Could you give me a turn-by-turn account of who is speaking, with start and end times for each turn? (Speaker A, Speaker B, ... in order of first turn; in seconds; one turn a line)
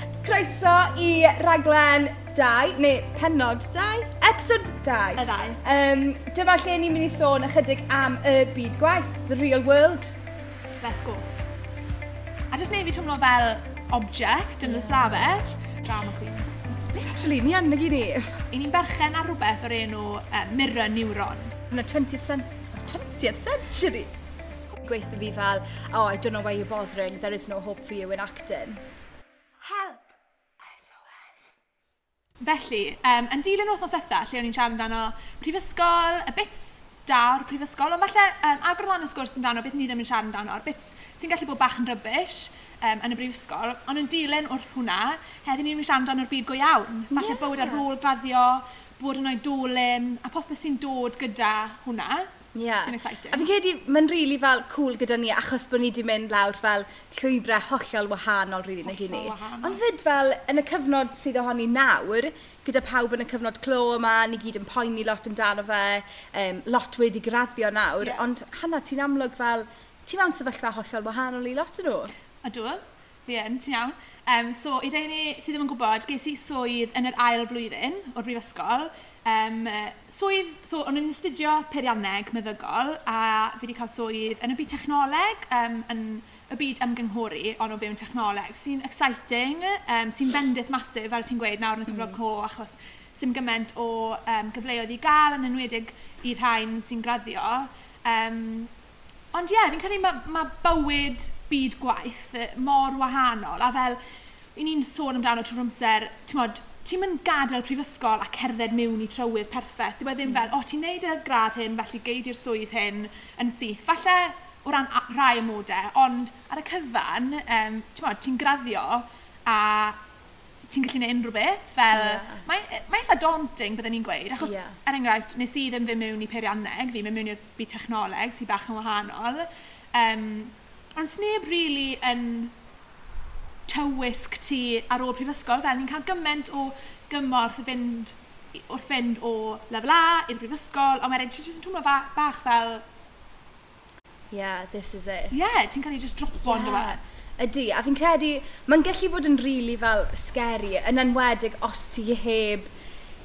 Speaker A: 0.2-10.2
Speaker B: 5.2-5.6
Speaker B: 10.8-11.2
Speaker B: 12.5-16.6
Speaker A: 14.6-15.2
Speaker A: 16.9-18.4
Speaker B: 18.5-21.6
Speaker A: 21.7-24.1
Speaker A: 24.7-28.8
Speaker B: 29.6-30.1
Speaker B: 30.8-31.5
Speaker B: 32.4-52.3
Speaker A: 47.1-47.8
Speaker A: 52.5-72.1
Speaker B: 52.8-53.5
Speaker B: 58.9-59.8
Speaker B: 72.4-98.7
Speaker B: 99.3-104.0
Speaker B: 104.5-120.0
Speaker A: 110.2-110.5
Speaker B: 120.7-132.5
Speaker A: 121.9-122.4
Speaker A: 124.4-124.7
Speaker B: 133.7-142.8
Speaker A: 144.3-145.4
Speaker B: 145.3-147.0
Speaker A: 146.4-152.7